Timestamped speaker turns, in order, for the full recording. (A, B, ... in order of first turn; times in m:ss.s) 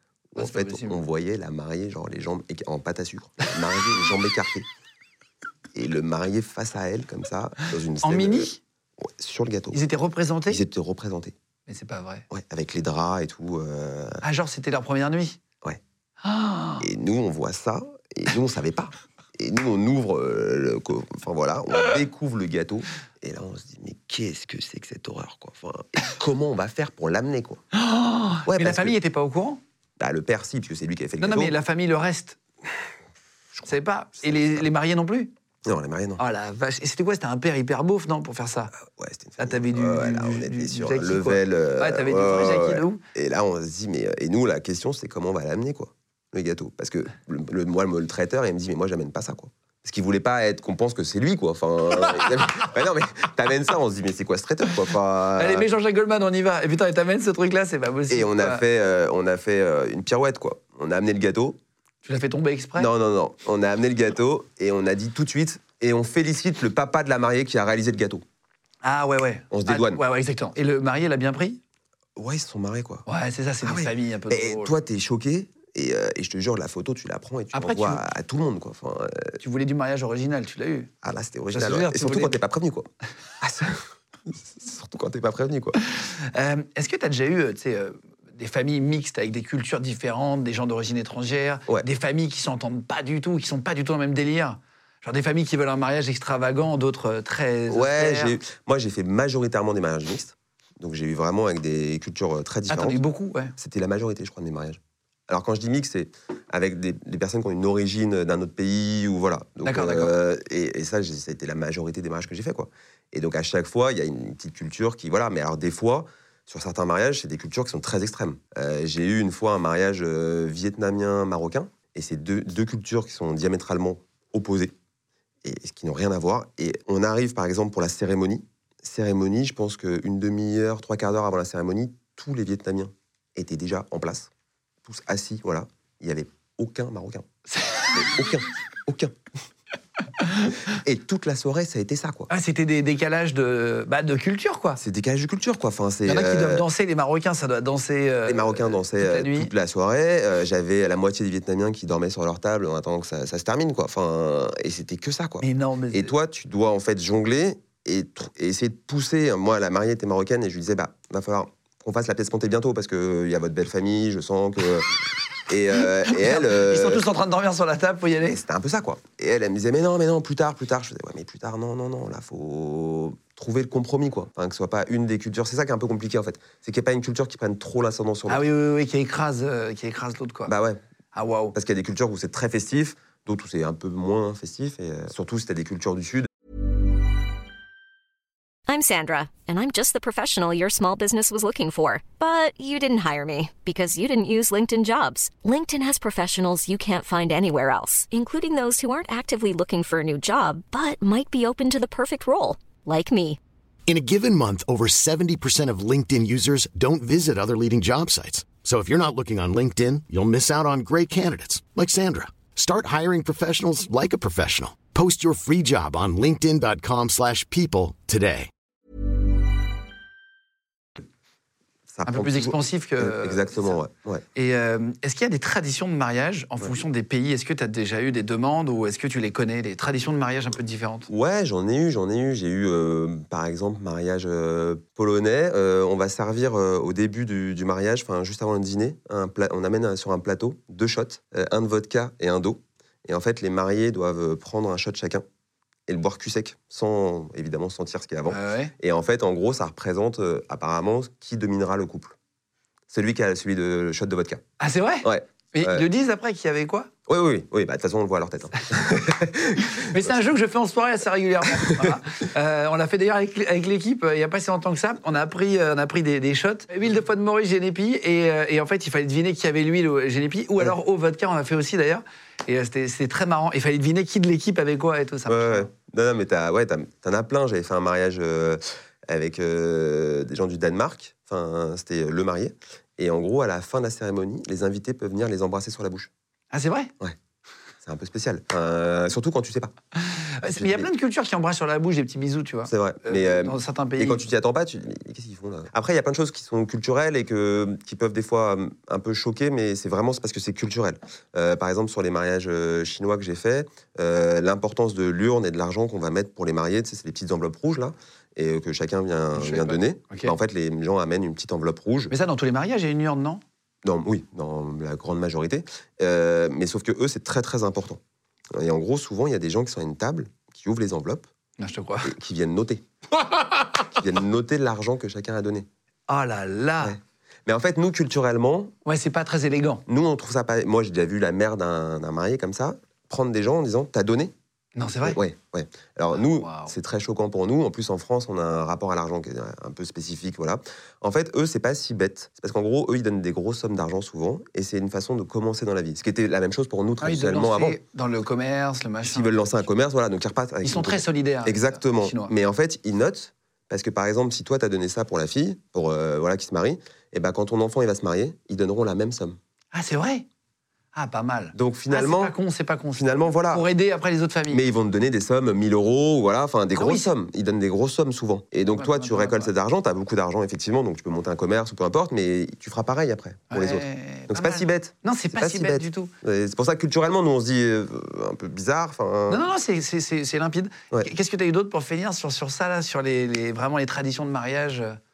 0:00.3-0:04.7 A
0:00.4-0:01.0 B
0:05.7-0:09.8 A
0:08.0-0:08.6 B
0:09.7-0:10.6 B
0:10.5-0:11.4 A
0:11.7-0:12.3 B
0:12.3-0:14.2 A
0:14.2-0:15.4 B
0:16.2-0:16.9 B
0:16.8-0:27.6 A
0:27.7-0:29.6 B
0:28.5-0:29.0 A
0:30.0-0:31.6 A
0:31.2-0:32.4 B
0:33.7-0:35.3 B
0:34.2-0:34.7 A
0:35.6-0:36.2 A
0:36.2-0:38.7 B
0:38.8-0:55.7 A
0:39.4-0:43.0 B
0:55.4-0:58.6 B
0:58.1-1:01.6 A
1:02.0-1:02.9 B
1:02.8-1:08.2 A
1:08.8-1:11.6 B
1:09.5-1:10.0 A
1:12.2-1:13.1 A
1:13.1-1:14.8 B
1:13.6-1:19.4 A
1:17.5-1:18.0 B
1:19.4-1:20.9 B
1:21.0-1:22.9 A
1:21.5-1:22.4 B
1:23.4-1:25.8 A
1:25.8-1:38.4 B
1:37.7-1:43.0 A
1:42.7-1:43.6 B
1:43.6-2:04.8 A
1:49.6-1:50.1 B
2:05.4-2:14.3 A
2:14.8-2:17.3 A
2:17.5-2:18.0 B
2:17.9-2:19.2 A
2:20.2-2:20.6 B
2:20.7-2:22.3 A
2:22.3-2:24.8 B
2:24.8-2:26.7 A
2:26.0-2:29.5 B
2:28.3-2:44.9 A
2:35.4-2:36.1 B
2:45.5-2:47.0 A
2:46.1-2:48.4 B
2:48.3-2:58.4 A
2:58.3-3:00.5 B
3:00.5-3:00.8 A
3:01.1-3:01.6 B
3:01.5-3:06.3 A
3:08.7-3:23.4 C
3:23.9-3:38.5 D
3:41.9-3:44.2 A
3:42.1-3:43.8 B
3:44.4-3:51.1 B
3:51.1-4:05.2 A
4:05.9-4:12.2 A
4:08.3-4:08.7 B
4:12.9-4:14.4 A
4:14.6-4:16.9 B
4:15.0-4:15.8 A
4:17.1-4:20.2 A
4:19.6-4:35.7 B
4:21.6-4:22.0 A
4:35.3-4:46.1 A
4:46.5-4:46.9 B
4:47.8-4:49.7 A
4:50.0-4:54.3 B
4:50.5-4:50.9 A
4:52.7-5:12.1 A
5:09.4-5:10.4 B
5:12.1-5:13.4 B
5:13.8-5:18.0 A
5:18.5-5:21.3 A
5:21.6-5:22.1 B
5:22.0-5:22.8 A
5:23.9-5:25.7 A
5:26.1-5:27.0 B
5:26.8-5:28.7 A
5:28.8-5:29.8 B
5:29.9-5:34.3 A
5:34.8-5:35.2 B
5:35.0-5:47.8 A
5:36.1-5:36.8 B
5:47.0-5:49.6 B
5:49.0-5:59.4 A
5:50.6-5:52.3 B
5:59.7-6:00.3 B
6:00.9-6:04.6 B
6:01.6-6:02.4 A
6:03.0-6:03.7 A
6:04.5-6:19.5 A
6:06.8-6:07.1 B
6:08.7-6:09.5 B
6:13.5-6:16.1 B
6:19.3-6:25.0 B